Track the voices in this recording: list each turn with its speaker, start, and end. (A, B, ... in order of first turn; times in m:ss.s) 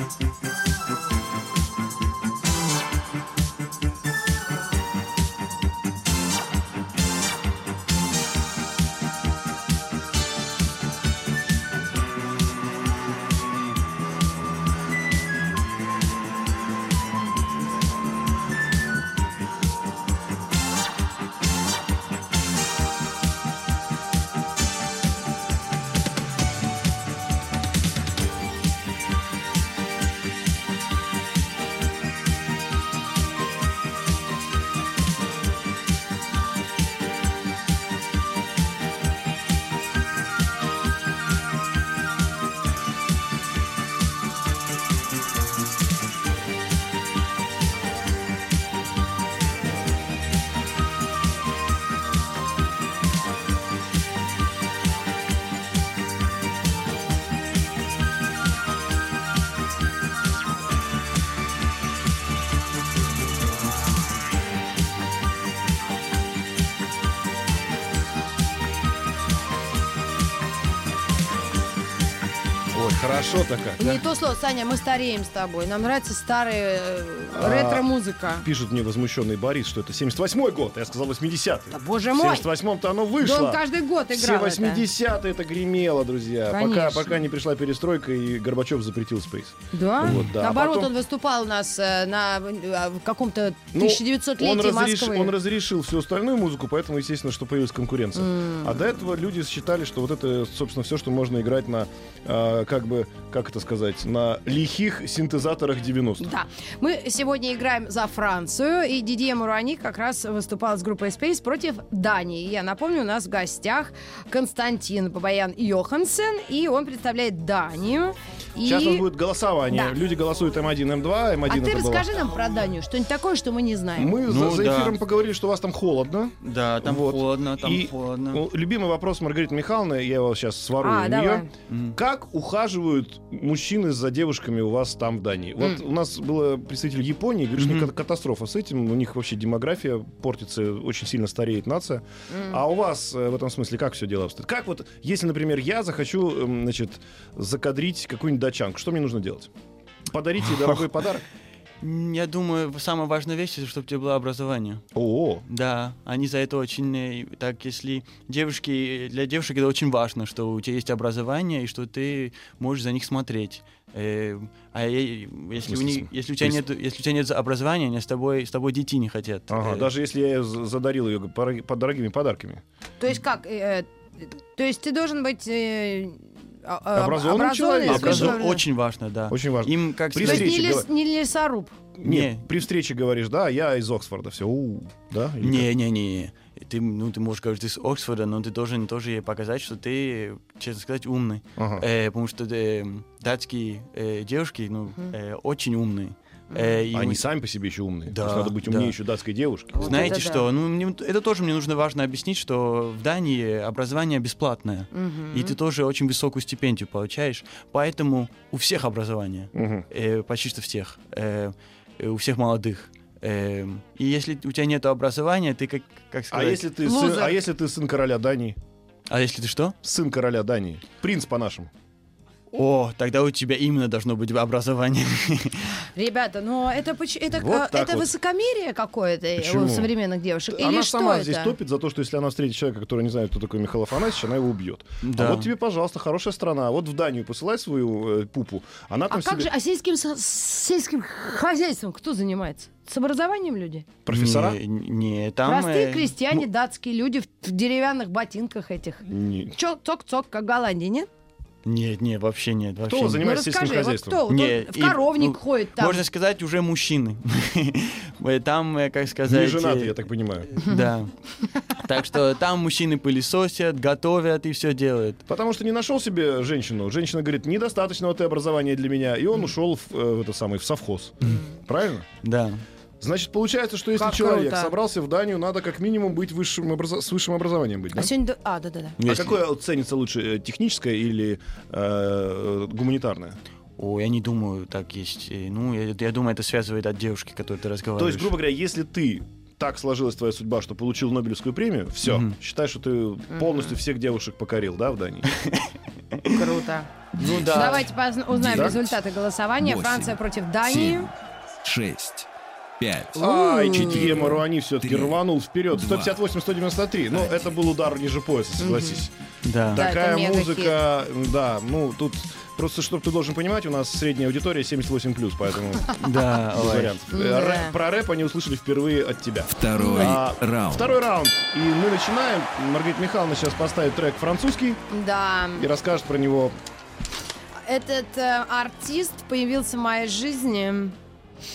1:12.7-1:14.0 A
1:13.8-1:18.4 B
1:17.3-1:17.9 A
1:18.4-1:30.9 A
1:21.7-1:22.5 B
1:23.2-1:24.8 B
1:26.5-1:27.2 B
1:29.7-1:35.3 B
1:33.7-1:46.3 A
1:38.2-1:38.7 B
1:46.2-1:59.0 B
1:58.6-2:02.1 A
1:59.7-2:00.0 B
2:01.5-2:04.2 B
2:03.9-2:29.5 A
2:04.3-2:05.0 C
2:06.4-2:08.4 C
2:10.8-2:11.5 B
2:11.7-2:12.0 C
2:17.6-2:17.9 C
2:22.3-2:22.6 B
2:30.1-2:31.2 A
2:31.8-2:34.8 C
2:34.9-2:35.4 A
2:35.5-2:49.9 C
2:45.6-2:46.6 A
2:49.5-2:52.6 A
2:53.0-2:58.6 B
2:56.9-2:58.4 A
2:57.9-3:00.6 C
2:59.3-3:00.9 A
3:00.2-3:01.8 B
3:02.0-3:05.7 A
3:02.0-3:02.4 C
3:05.4-3:17.2 C
3:11.6-3:11.8 A
3:16.5-3:16.8 B
3:16.9-3:20.2 A
3:18.1-3:18.9 C
3:19.8-3:20.5 B
3:19.8-3:36.7 C
3:24.9-3:25.5 B
3:29.5-3:29.8 A
3:36.3-3:38.6 A
3:36.8-3:37.4 B
3:39.1-3:39.8 C
3:39.8-3:41.7 A
3:42.5-3:45.7 C
3:46.0-3:51.6 B
3:47.3-3:48.1 A
3:49.4-3:49.9 A
3:50.5-3:59.5 A
3:55.0-3:55.5 C
3:59.1-4:03.9 B
4:04.0-4:04.6 A
4:04.1-4:06.2 C
4:05.4-4:09.0 B
4:09.0-4:09.5 A
4:09.5-4:11.1 B
4:11.6-4:13.2 C
4:12.9-4:14.2 A
4:13.2-4:16.0 B
4:14.3-4:20.0 C
4:19.2-4:20.5 A
4:20.5-4:21.1 C
4:21.7-4:25.2 C
4:25.3-4:32.0 A
4:31.2-4:31.5 B
4:32.2-4:32.6 C
4:33.0-4:38.1 A
4:34.0-4:34.7 B
4:37.9-4:39.0 B
4:39.0-4:39.4 C
4:39.0-4:43.4 A
4:43.8-4:48.3 C
4:48.0-4:55.3 A
4:52.0-4:52.4 C
4:53.3-4:53.6 B
4:55.3-4:56.4 C
4:56.3-4:56.9 B
4:57.2-4:57.9 C
4:57.3-4:59.0 D
4:57.5-5:01.1 B
4:58.5-4:58.8 A
4:59.6-5:01.1 D
5:01.6-5:02.3 D
5:02.8-5:05.2 D
5:03.2-5:09.1 A
5:03.2-5:04.2 B
5:05.7-5:06.2 D
5:08.6-5:09.0 B
5:09.4-5:09.8 C
5:09.7-5:24.8 A
5:09.7-5:10.8 B
5:16.0-5:17.0 C
5:17.1-5:17.8 B
5:19.5-5:21.0 D
5:19.8-5:20.2 B
5:24.9-5:25.6 B
5:25.5-5:26.6 A
5:27.6-5:31.0 B